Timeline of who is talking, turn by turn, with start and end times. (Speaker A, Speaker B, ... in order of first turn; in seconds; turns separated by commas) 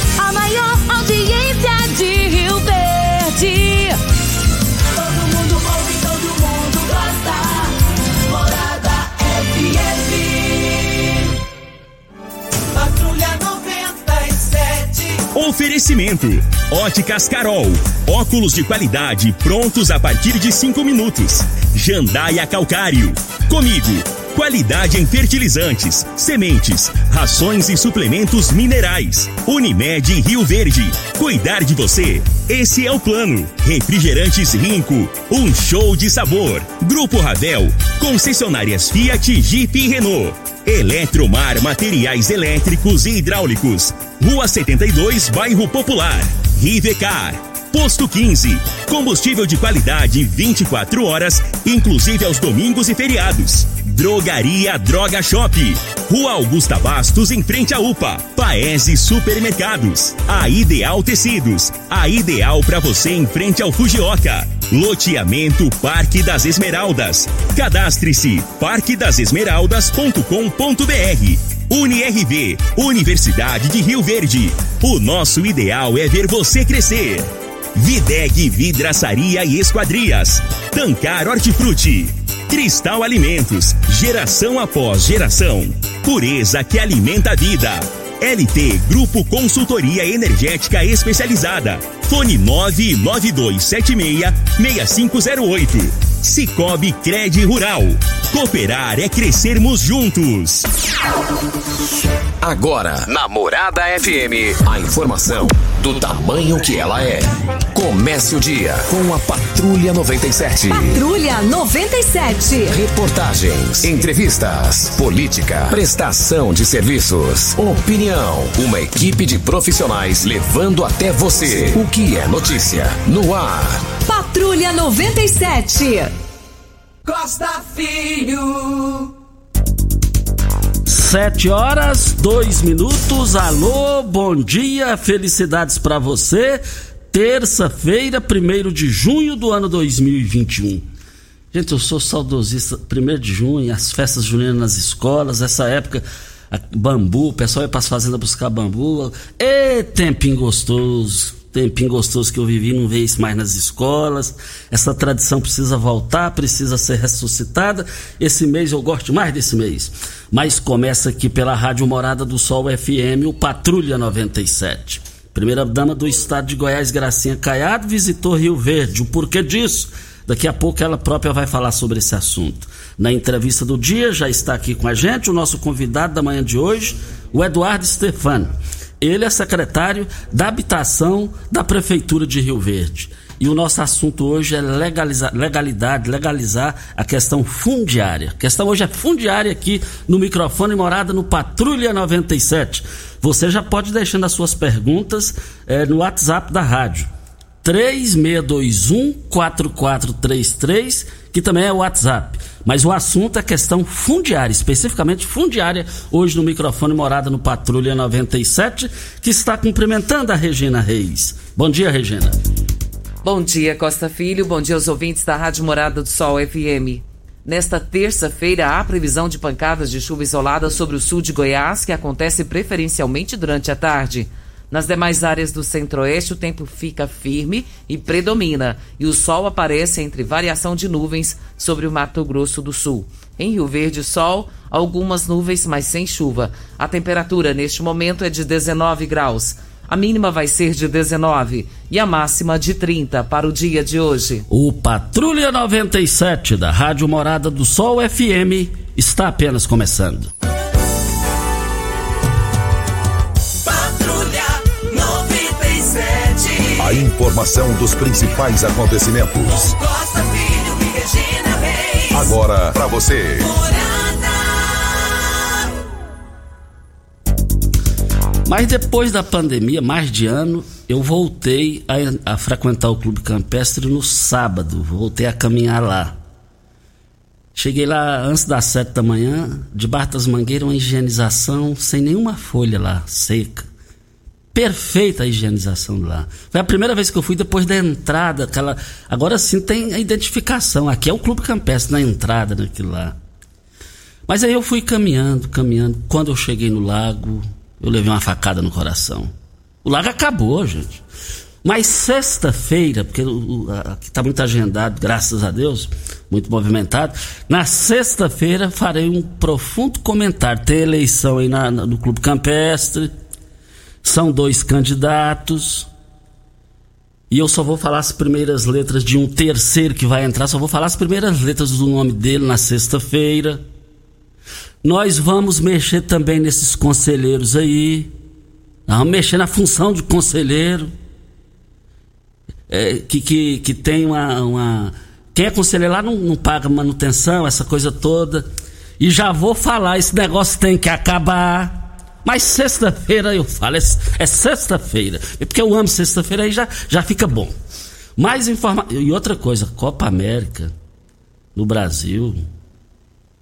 Speaker A: 0.2-4.0, Speaker B: 4.9-11.2, Speaker B: 12.7-15.2, Speaker C: 15.3-100.7, Speaker D: 102.4-111.0, Speaker A: 110.7-112.7, Speaker D: 112.7-123.9, Speaker A: 124.0-126.1, Speaker B: 127.0-129.1, Speaker E: 130.9-140.8, Speaker E: 141.5-178.5, Speaker E: 179.0-197.1, Speaker E: 197.6-212.3, Speaker F: 213.2-244.4, Speaker E: 244.5-250.3, Speaker B: 253.6-257.0, Speaker G: 256.8-259.7, Speaker B: 259.5-262.4, Speaker G: 262.1-263.5, Speaker B: 263.4-265.1, Speaker E: 268.4-276.1, Speaker E: 277.5-283.7, Speaker E: 284.5-293.1, Speaker E: 294.3-299.3, Speaker E: 299.8-301.0, Speaker E: 301.6-313.1, Speaker E: 314.0-315.9, Speaker E: 317.3-323.6, Speaker E: 324.8-328.1, Speaker E: 328.9-330.9, Speaker E: 332.7-338.4, Speaker E: 339.0-347.6, Speaker E: 348.2-350.7, Speaker E: 351.5-352.4